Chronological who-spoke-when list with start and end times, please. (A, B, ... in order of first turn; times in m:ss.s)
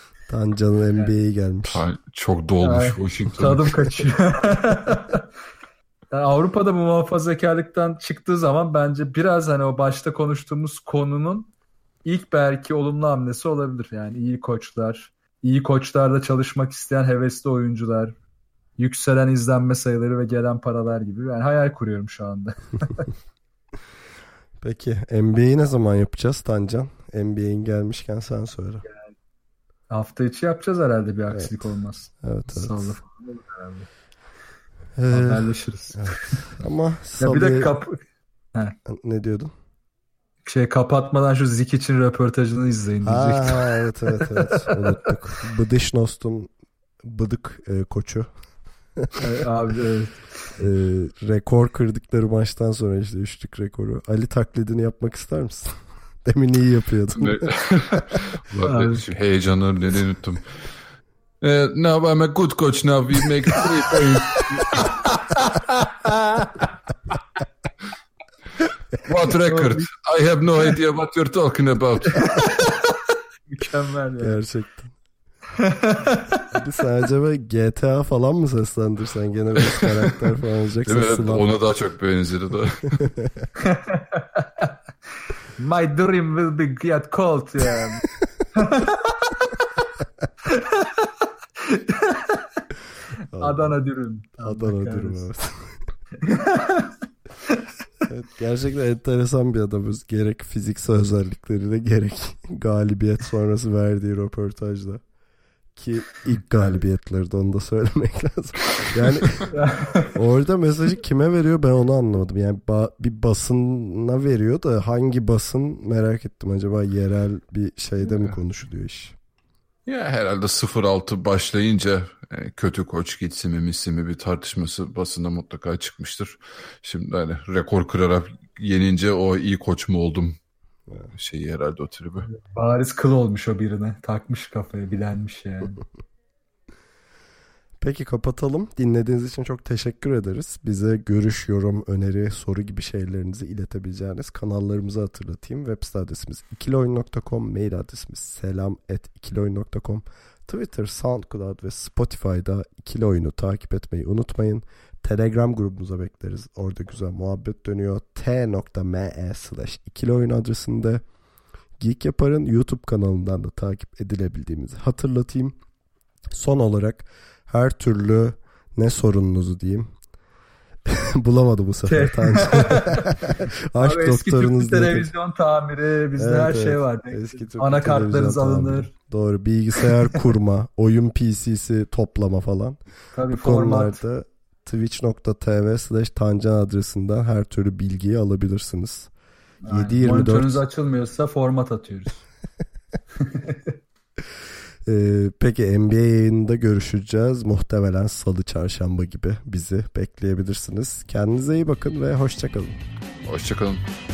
0:00.3-0:01.8 A
0:01.7-0:03.7 B
0:02.6-0:05.2 C
0:06.1-0:11.5 C
0:12.0-0:18.2 C
0:18.8-0:23.1 C
0:24.6-0:28.8 A
0:29.9-0:33.9 C
0:32.2-0:32.9 A
0:35.0-0:37.8 A
0:35.1-0:36.4 C
0:37.2-0:38.0 C
0:38.9-0:39.5 A
0:40.4-0:44.8 C
0:43.0-0:46.5 A
0:47.0-0:48.3 A
0:49.2-0:50.3 C
0:50.6-0:57.5 A
0:57.2-1:00.7 B
0:58.6-0:59.0 C
1:01.4-1:05.0 B
1:04.0-1:04.8 C
1:05.4-1:06.6 C
1:09.0-1:12.3 B
1:09.4-1:09.8 C
1:12.2-1:14.4 C
1:14.2-1:15.0 A
1:15.6-1:16.4 C
1:16.5-1:21.5 A
1:20.8-1:23.0 B
1:23.0-1:23.3 A
1:23.6-1:24.6 C
1:25.6-1:29.7 C
1:30.5-1:31.1 C
1:31.6-1:32.6 C
1:33.3-1:33.8 A
1:33.4-1:35.3 C
1:34.4-1:35.8 A
1:36.2-1:36.9 C
1:38.1-1:45.0 A
1:45.8-1:59.2 A
1:49.5-1:50.1 C
1:59.9-2:10.4 B
2:11.1-2:12.3 B
2:12.2-2:15.8 C
2:17.8-2:41.0 A
2:41.8-2:45.6 A
2:46.3-2:49.9 A
2:50.9-2:55.1 A
2:51.9-2:53.2 C
2:53.8-2:58.9 C
2:56.2-3:09.1 A
3:03.1-3:04.0 C
3:09.6-3:12.2 C
3:09.7-3:10.6 A
3:13.2-3:13.7 C
3:14.9-3:22.8 A
3:23.2-3:23.8 B